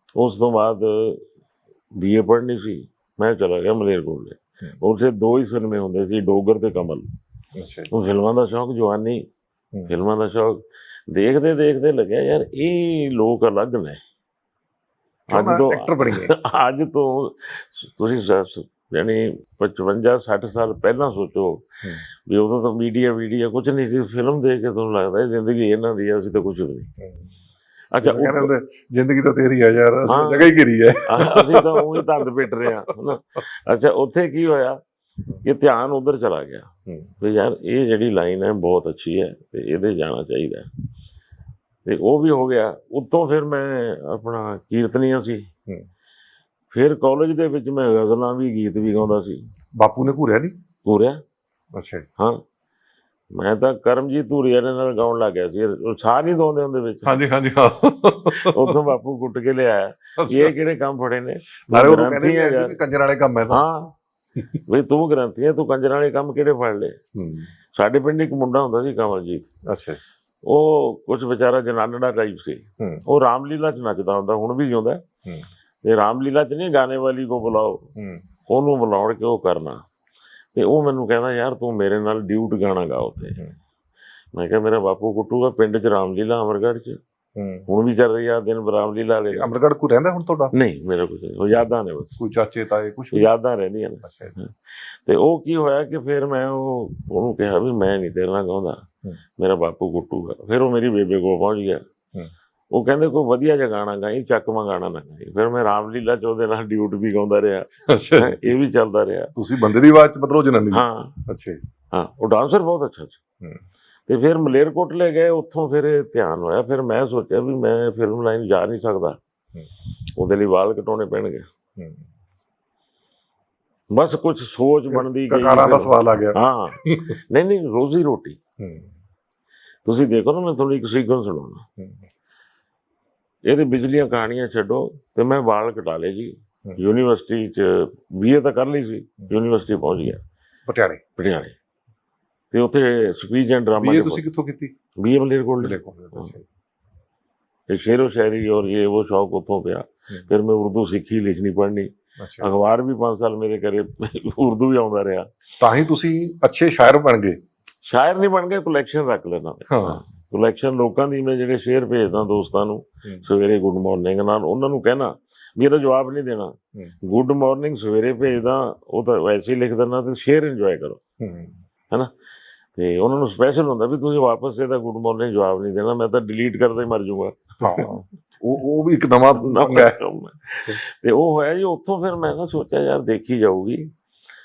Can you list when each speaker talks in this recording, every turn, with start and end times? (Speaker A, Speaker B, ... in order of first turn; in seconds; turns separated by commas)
Speaker A: 0.2-1.2, Speaker A: 2.0-7.1, Speaker B: 7.5-7.9, Speaker A: 7.9-9.2, Speaker A: 9.9-14.0, Speaker B: 15.3-16.3, Speaker A: 15.3-21.6, Speaker A: 22.3-26.9, Speaker B: 27.0-27.3, Speaker A: 27.9-28.5, Speaker B: 28.0-32.1, Speaker A: 30.1-30.5, Speaker A: 31.1-34.8, Speaker A: 35.4-36.7, Speaker A: 37.2-40.7, Speaker A: 41.9-45.5, Speaker A: 46.7-49.4, Speaker B: 49.8-50.5, Speaker A: 50.9-51.2, Speaker B: 51.7-52.1, Speaker A: 53.3-57.2, Speaker B: 57.0-58.8, Speaker A: 58.3-62.8, Speaker B: 60.2-60.5, Speaker B: 61.7-63.6, Speaker A: 63.5-63.9, Speaker A: 64.5-67.0, Speaker B: 67.2-67.5, Speaker A: 67.8-69.5, Speaker B: 69.7-70.0, Speaker A: 70.5-75.0, Speaker A: 75.8-77.9, Speaker B: 78.0-78.2, Speaker A: 78.5-79.8, Speaker A: 80.5-83.4, Speaker A: 84.3-87.0, Speaker B: 87.4-87.7, Speaker A: 87.7-89.5, Speaker B: 89.3-90.5, Speaker A: 90.5-92.2, Speaker B: 92.2-93.3, Speaker A: 93.1-98.8, Speaker B: 94.0-94.4, Speaker A: 99.4-101.8, Speaker A: 102.7-109.3, Speaker B: 107.9-108.4, Speaker B: 109.3-111.6, Speaker A: 110.7-111.2, Speaker A: 111.9-113.2, Speaker A: 114.1-119.2, Speaker A: 120.2-121.5, Speaker B: 121.8-122.1, Speaker A: 123.9-128.4, Speaker B: 124.9-127.2, Speaker B: 128.6-128.9, Speaker A: 129.8-131.6, Speaker B: 131.8-132.0, Speaker A: 133.5-140.2, Speaker B: 140.7-141.0, Speaker A: 141.2-141.6, Speaker A: 142.5-144.2, Speaker B: 143.8-144.7, Speaker A: 145.0-146.3, Speaker B: 145.6-146.4, Speaker A: 147.7-155.3, Speaker B: 152.2-152.6, Speaker B: 155.6-157.4, Speaker A: 157.8-171.0, Speaker B: 159.7-160.0, Speaker B: 171.2-171.6, Speaker A: 172.8-178.0, Speaker B: 177.6-180.0, Speaker A: 179.4-183.9